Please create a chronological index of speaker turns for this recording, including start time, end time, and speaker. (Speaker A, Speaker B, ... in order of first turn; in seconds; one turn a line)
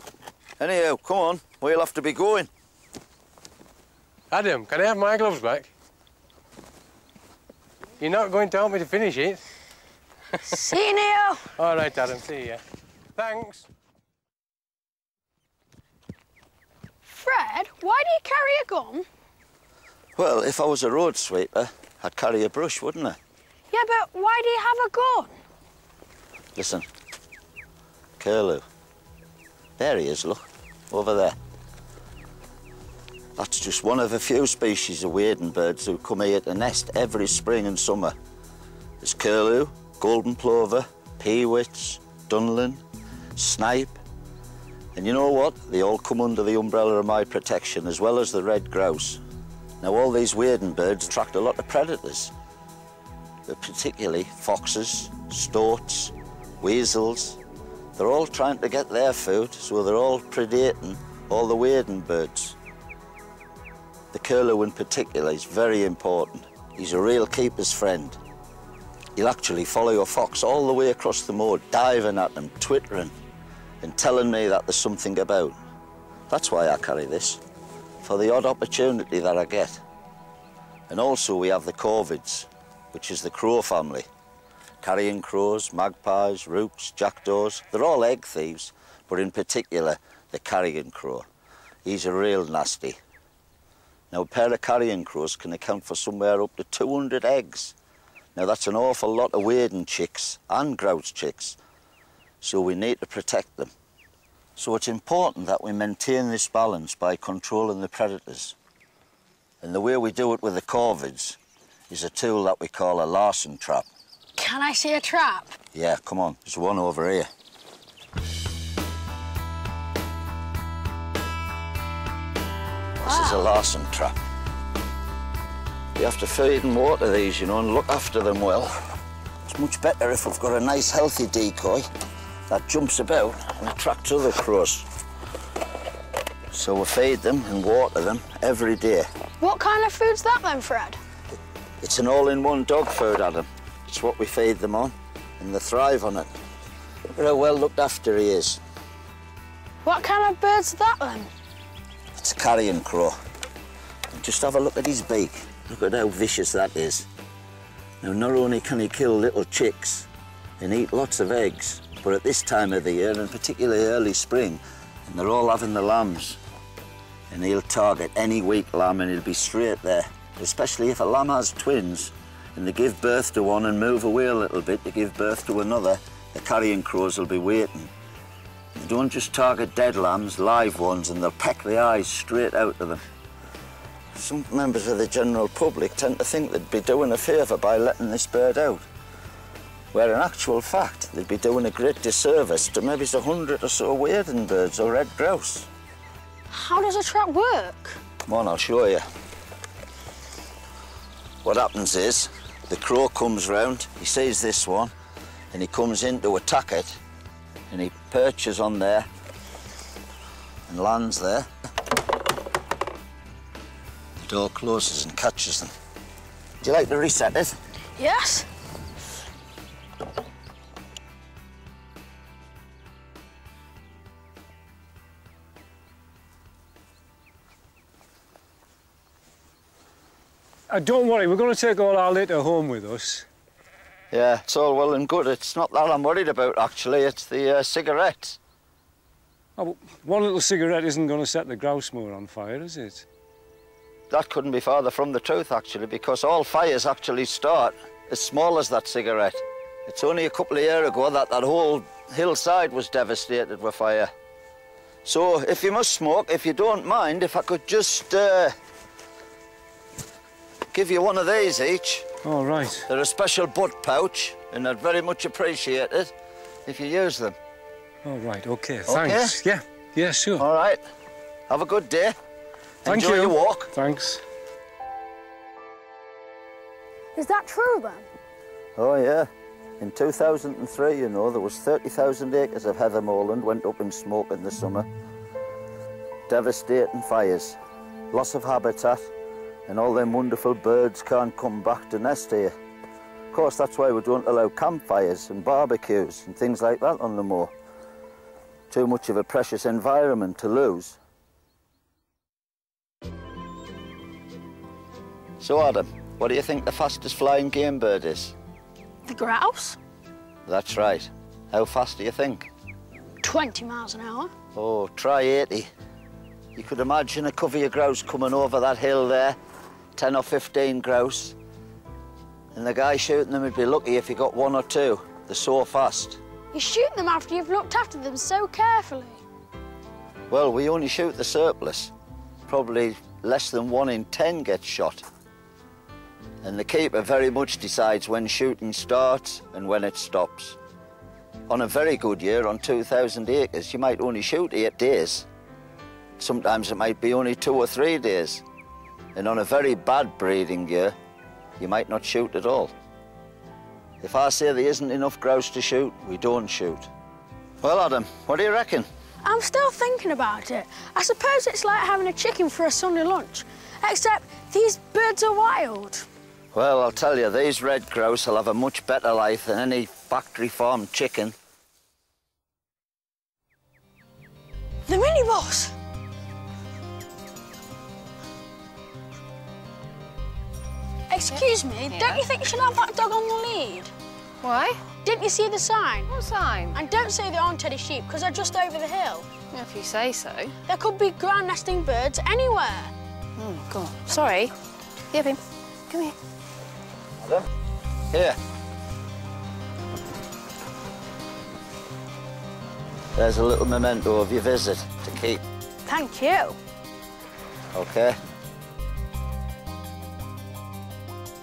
Speaker A: 0.6-2.5
Speaker B: 4.3-5.7
Speaker B: 8.0-9.4
Speaker C: 10.4-11.5
Speaker B: 11.6-12.6
Speaker B: 13.2-13.7
Speaker C: 17.1-19.1
Speaker A: 20.2-23.2
Speaker C: 23.7-25.4
Speaker A: 26.6-26.9
Speaker A: 28.2-28.6
Speaker A: 29.8-31.4
Speaker A: 33.4-38.2
Speaker A: 39.0-42.8
Speaker A: 43.4-44.0
Speaker A: 45.0-49.2
Speaker A: 49.8-52.3
Speaker A: 53.5-57.4
Speaker A: 58.0-62.6
Speaker A: 64.1-68.2
Speaker A: 69.2-73.1
Speaker A: 73.8-75.5
Speaker A: 76.3-77.4
Speaker A: 78.0-79.8
Speaker A: 80.9-84.1
Speaker A: 84.8-91.2
Speaker A: 91.9-93.0
Speaker A: 94.1-97.8
Speaker A: 98.3-101.6
Speaker A: 102.4-103.7
Speaker A: 104.6-108.6
Speaker A: 109.6-111.4
Speaker A: 111.9-113.9
Speaker C: 114.4-115.5
Speaker A: 115.7-117.3
Speaker C: 123.0-123.5
Speaker A: 123.0-124.2
Speaker A: 126.0-128.7
Speaker A: 129.5-131.9
Speaker A: 132.5-134.9
Speaker A: 136.5-139.1
Speaker C: 139.4-141.0
Speaker A: 141.8-146.3
Speaker A: 147.1-148.6
Speaker C: 149.8-151.3
Speaker A: 152.2-153.2
Speaker A: 154.1-157.1
Speaker A: 158.0-160.1
Speaker A: 160.6-166.4
Speaker A: 167.3-177.9
Speaker A: 178.8-183.0
Speaker A: 184.1-188.8
Speaker A: 189.9-195.7
Speaker C: 196.5-198.0
Speaker A: 198.3-199.1
Speaker A: 201.4-204.9
Speaker A: 205.5-207.0
Speaker A: 207.7-209.1
Speaker A: 210.7-211.5
Speaker A: 214.2-215.7
Speaker A: 216.6-217.6
Speaker C: 218.0-218.5
Speaker D: 230.7-233.2
Speaker A: 234.1-238.4
Speaker D: 239.6-243.1
Speaker A: 244.1-254.1
Speaker A: 255.1-258.6
Speaker A: 260.7-262.1
Speaker A: 262.9-266.1
Speaker A: 266.7-267.4
Speaker D: 268.1-270.4
Speaker A: 268.9-269.4
Speaker A: 270.4-270.8
Speaker A: 271.5-272.1
Speaker A: 272.8-273.7
Speaker D: 272.9-274.2
Speaker C: 277.1-278.1
Speaker A: 278.8-279.3
Speaker A: 279.8-284.9
Speaker A: 286.3-287.6
Speaker A: 288.1-289.1
Speaker A: 289.7-292.5
Speaker A: 293.3-297.5
Speaker A: 298.7-301.0
Speaker A: 305.4-308.3
Speaker C: 309.1-309.8
Speaker A: 310.5-312.5
Speaker C: 313.2-314.3
Speaker A: 314.6-315.7
Speaker A: 316.6-319.4
Speaker A: 320.0-321.4
Speaker A: 322.5-326.2
Speaker C: 326.5-329.2
Speaker A: 330.3-331.9
Speaker A: 332.5-335.1
Speaker A: 336.4-340.6
Speaker A: 341.5-345.3
Speaker A: 346.2-348.4
Speaker A: 349.1-350.9
Speaker A: 351.6-352.7
Speaker A: 354.0-356.9
Speaker A: 357.6-358.9
Speaker C: 359.2-366.1
Speaker A: 366.5-371.4
Speaker C: 374.9-375.8
Speaker C: 381.1-383.9
Speaker E: 381.3-382.2
Speaker E: 384.4-384.8
Speaker C: 385.0-386.1
Speaker E: 386.1-386.8
Speaker C: 386.7-389.3
Speaker E: 389.5-390.5
Speaker C: 390.7-392.9
Speaker E: 393.4-394.6
Speaker E: 395.1-396.2
Speaker A: 398.1-398.4
Speaker A: 403.2-405.4
Speaker C: 405.9-406.6
Speaker A: 407.7-408.2